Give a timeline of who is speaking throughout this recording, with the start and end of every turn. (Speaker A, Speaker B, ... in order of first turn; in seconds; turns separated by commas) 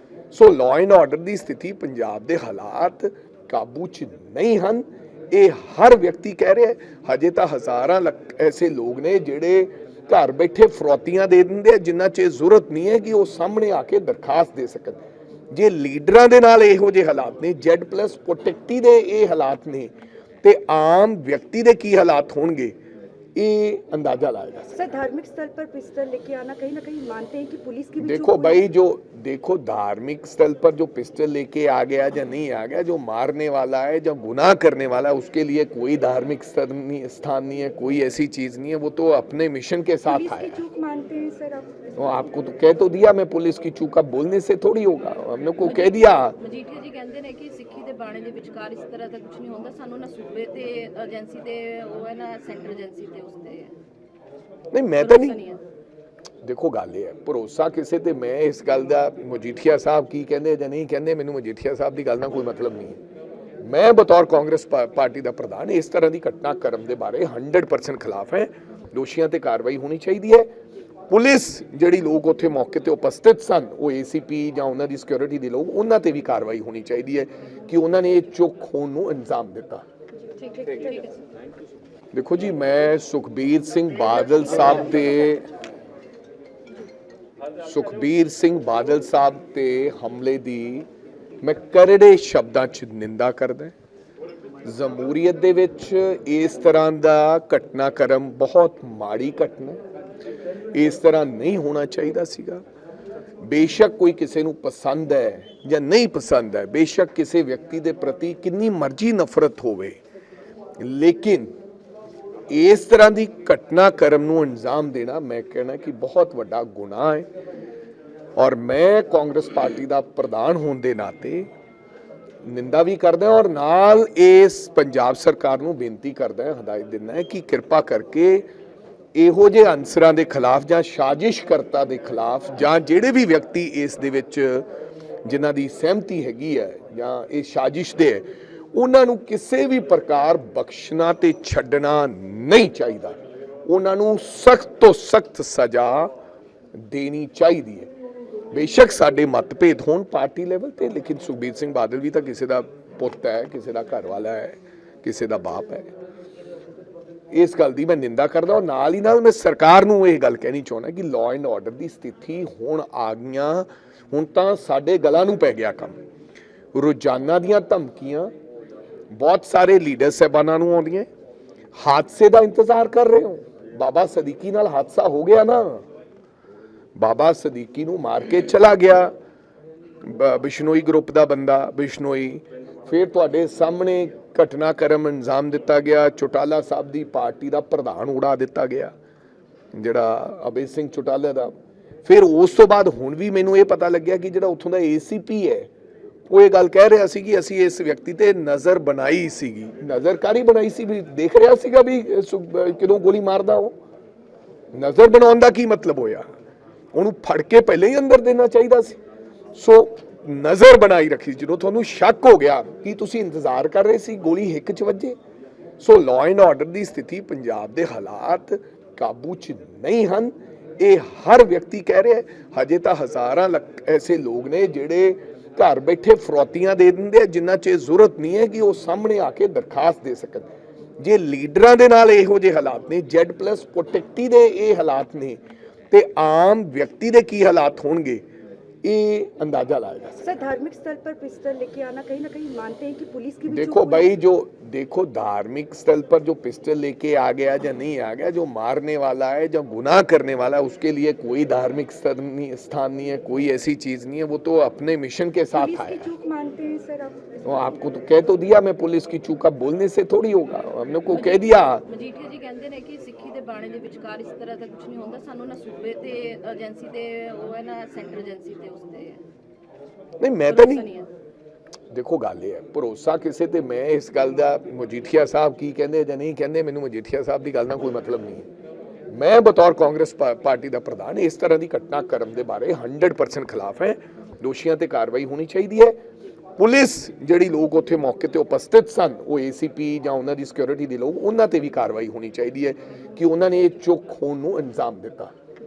Speaker A: 0.3-19.9, Speaker A: 20.4-22.7, Speaker A: 23.4-24.8, Speaker B: 24.7-28.6, Speaker A: 28.0-40.6, Speaker B: 40.0-41.7, Speaker A: 42.0-46.4, Speaker C: 45.6-53.7, Speaker A: 54.7-55.4, Speaker C: 55.0-55.6, Speaker A: 56.4-63.0, Speaker A: 63.6-70.5, Speaker A: 71.1-79.8, Speaker B: 80.3-81.2, Speaker A: 82.1-85.5, Speaker A: 87.6-90.9, Speaker A: 91.4-93.7, Speaker A: 94.6-99.8, Speaker A: 100.7-102.6, Speaker A: 103.4-110.0, Speaker A: 110.8-111.5, Speaker A: 112.5-117.3, Speaker A: 118.3-121.5, Speaker A: 122.4-128.5, Speaker A: 129.1-134.7, Speaker A: 135.2-146.1, Speaker A: 146.8-147.9, Speaker A: 148.5-155.9, Speaker A: 157.3-166.0, Speaker A: 166.7-168.3, Speaker A: 169.1-171.1, Speaker A: 171.7-175.8, Speaker A: 176.9-179.1, Speaker A: 180.0-188.9, Speaker A: 189.7-195.7, Speaker A: 196.3-203.7, Speaker A: 204.7-206.2, Speaker A: 206.9-209.0, Speaker A: 209.5-215.2, Speaker A: 215.8-235.4, Speaker A: 235.9-238.2, Speaker A: 238.8-240.2, Speaker B: 240.2-244.1, Speaker A: 243.5-256.1, Speaker B: 255.5-257.2, Speaker A: 257.4-261.8, Speaker C: 261.1-269.2, Speaker A: 270.2-270.9, Speaker C: 270.5-271.1, Speaker A: 271.9-278.5, Speaker A: 279.1-286.0, Speaker A: 286.6-295.3